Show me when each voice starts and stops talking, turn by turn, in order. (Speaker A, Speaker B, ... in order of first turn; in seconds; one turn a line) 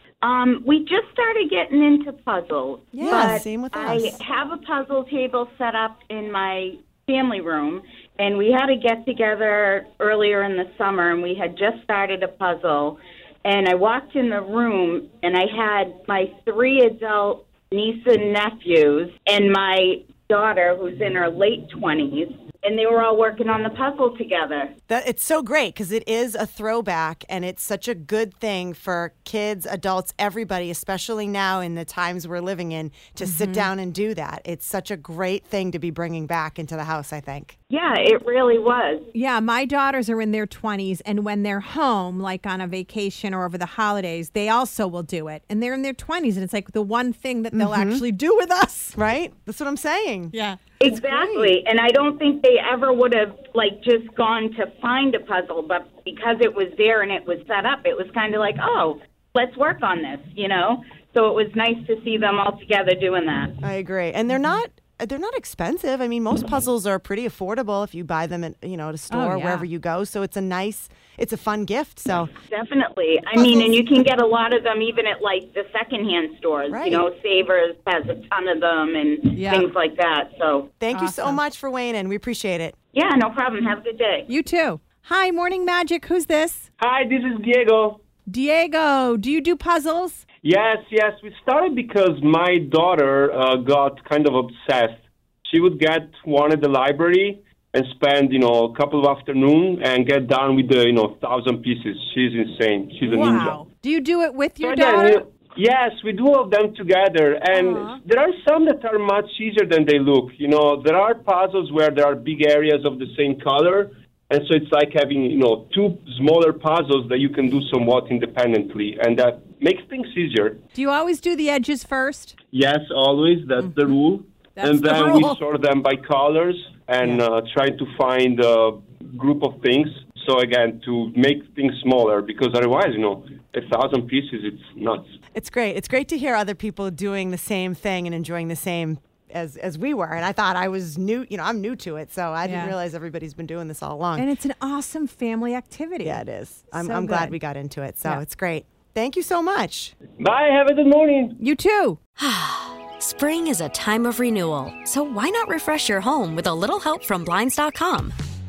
Speaker A: 0.2-24.7
Speaker B: 2.9-3.2
Speaker C: 3.0-4.2
Speaker C: 24.9-37.5
Speaker B: 33.2-33.7
Speaker A: 37.7-39.1
Speaker B: 39.1-48.9
Speaker C: 47.5-48.0
Speaker C: 48.9-51.6
Speaker B: 50.3-50.6
Speaker A: 50.8-63.5
Speaker C: 63.6-72.3
Speaker B: 69.1-69.7
Speaker A: 72.5-80.8
Speaker C: 73.3-74.0
Speaker C: 76.7-77.0
Speaker B: 79.3-79.7
Speaker C: 80.8-82.7
Speaker B: 80.9-81.4
Speaker A: 82.9-84.3
Speaker B: 84.3-86.7
Speaker D: 86.8-88.0
Speaker B: 88.3-90.2
Speaker D: 90.4-103.6
Speaker B: 103.0-105.2
Speaker D: 104.6-120.6
Speaker B: 107.5-108.0
Speaker B: 120.7-122.3
Speaker D: 122.5-135.1
Speaker B: 123.6-124.0
Speaker B: 124.6-125.4
Speaker C: 135.3-144.3
Speaker B: 142.4-142.7
Speaker B: 144.2-147.4
Speaker C: 146.0-149.9
Speaker D: 150.2-151.4
Speaker B: 151.4-152.0
Speaker E: 152.2-158.1